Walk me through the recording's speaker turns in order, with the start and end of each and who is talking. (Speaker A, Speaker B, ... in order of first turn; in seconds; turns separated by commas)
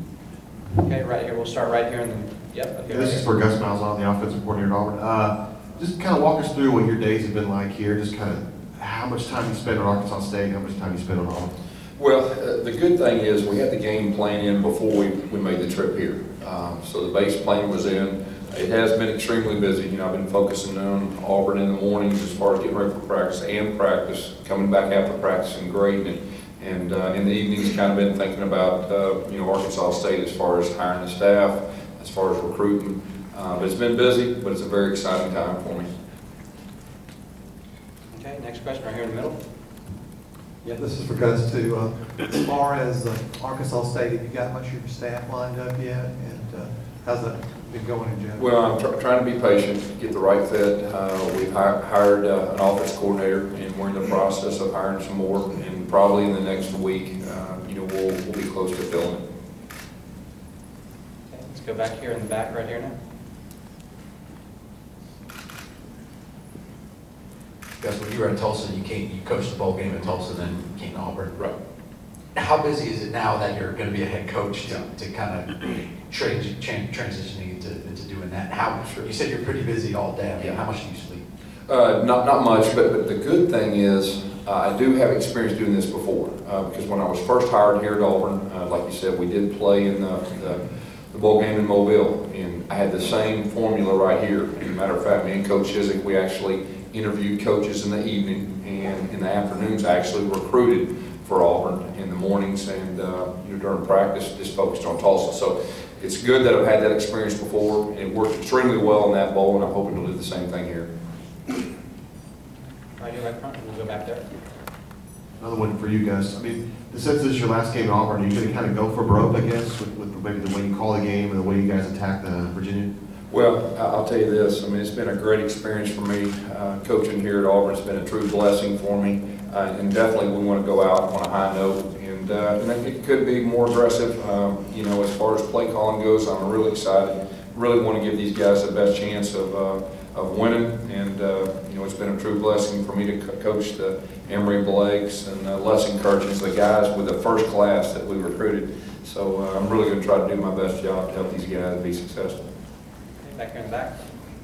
Speaker A: 0.7-3.2, Speaker B: 2.9-11.5, Speaker C: 12.0-35.9, Speaker A: 38.1-39.4, Speaker D: 40.7-48.5, Speaker C: 48.4-59.2, Speaker A: 61.3-62.9, Speaker E: 67.8-71.3, Speaker E: 72.3-81.2, Speaker C: 78.8-79.1, Speaker C: 81.7-90.6, Speaker C: 91.1-110.9, Speaker A: 113.0-114.3, Speaker B: 115.4-122.9, Speaker C: 123.3-152.5, Speaker A: 153.2-154.0